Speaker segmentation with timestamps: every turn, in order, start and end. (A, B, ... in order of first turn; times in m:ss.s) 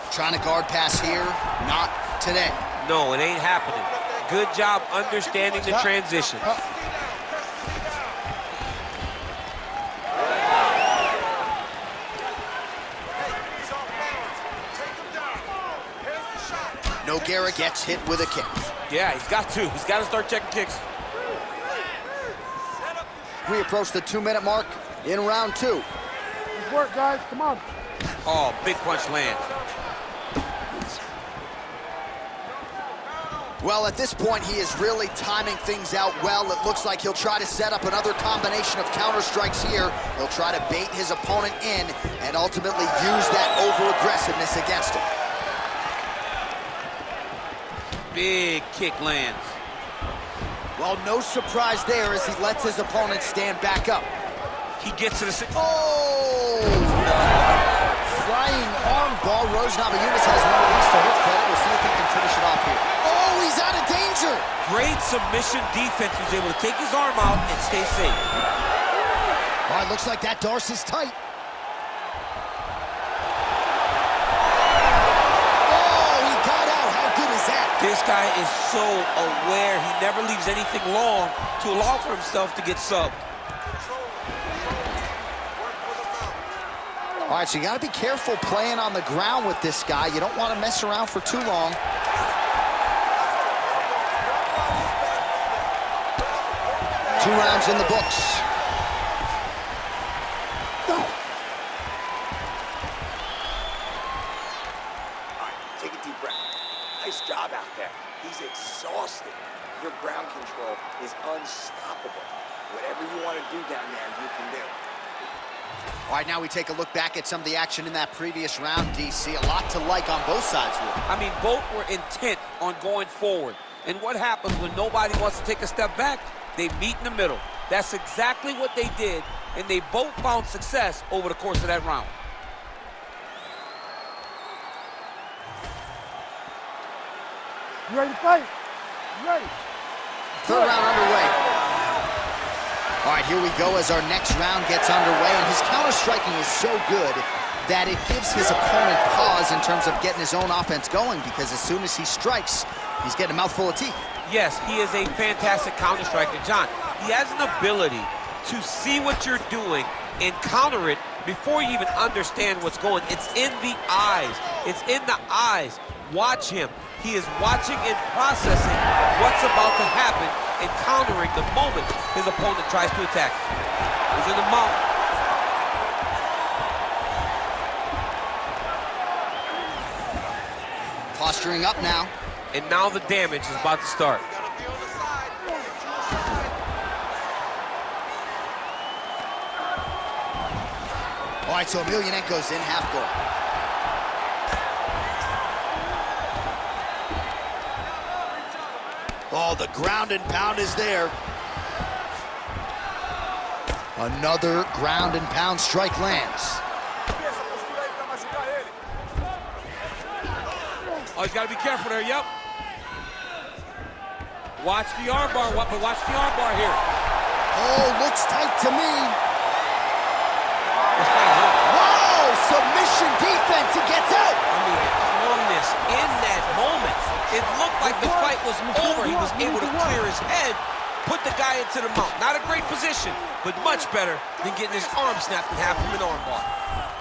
0:00.1-0:02.6 A
0:02.8-0:06.5 B
0:17.0-0:18.7 A
0:18.9-0:20.8 B
0:23.4-0:25.9 A
0:26.5-0:27.6 C
0:28.2-0:29.5 B
0:33.6-0:45.0 A
0:48.1-0:49.6 B
0:50.8-0:54.1 A
0:54.8-0:55.6 B
0:55.5-0:57.4 A
0:58.0-1:04.5 A
1:04.6-1:08.2 B
1:09.7-1:11.2 A
1:15.6-1:17.8 A
1:17.8-1:23.2 B
1:25.8-1:26.3 D
1:27.2-1:31.8 A
1:33.3-1:35.6 D
1:36.4-1:37.1 D
1:37.1-1:38.4 A
1:45.4-1:54.8 D
1:56.1-2:01.0 A
2:01.1-2:12.1 B
2:17.9-2:18.5 C
2:19.1-2:19.5 C
2:20.4-2:21.4 A
2:23.0-2:34.0 A
2:34.2-2:53.4 B
2:54.1-2:54.8 B
3:01.1-3:02.1 A
3:02.5-3:04.3 B
3:11.4-3:13.2 A
3:19.3-3:21.1 A
3:24.0-3:26.6 A
3:27.1-3:28.8 D
3:31.1-3:32.3 B
3:34.6-3:36.8 B
3:37.5-3:39.2 A
3:41.0-3:41.7 B
3:41.6-3:44.4 A
3:44.5-3:56.5 B
3:47.8-3:50.0 C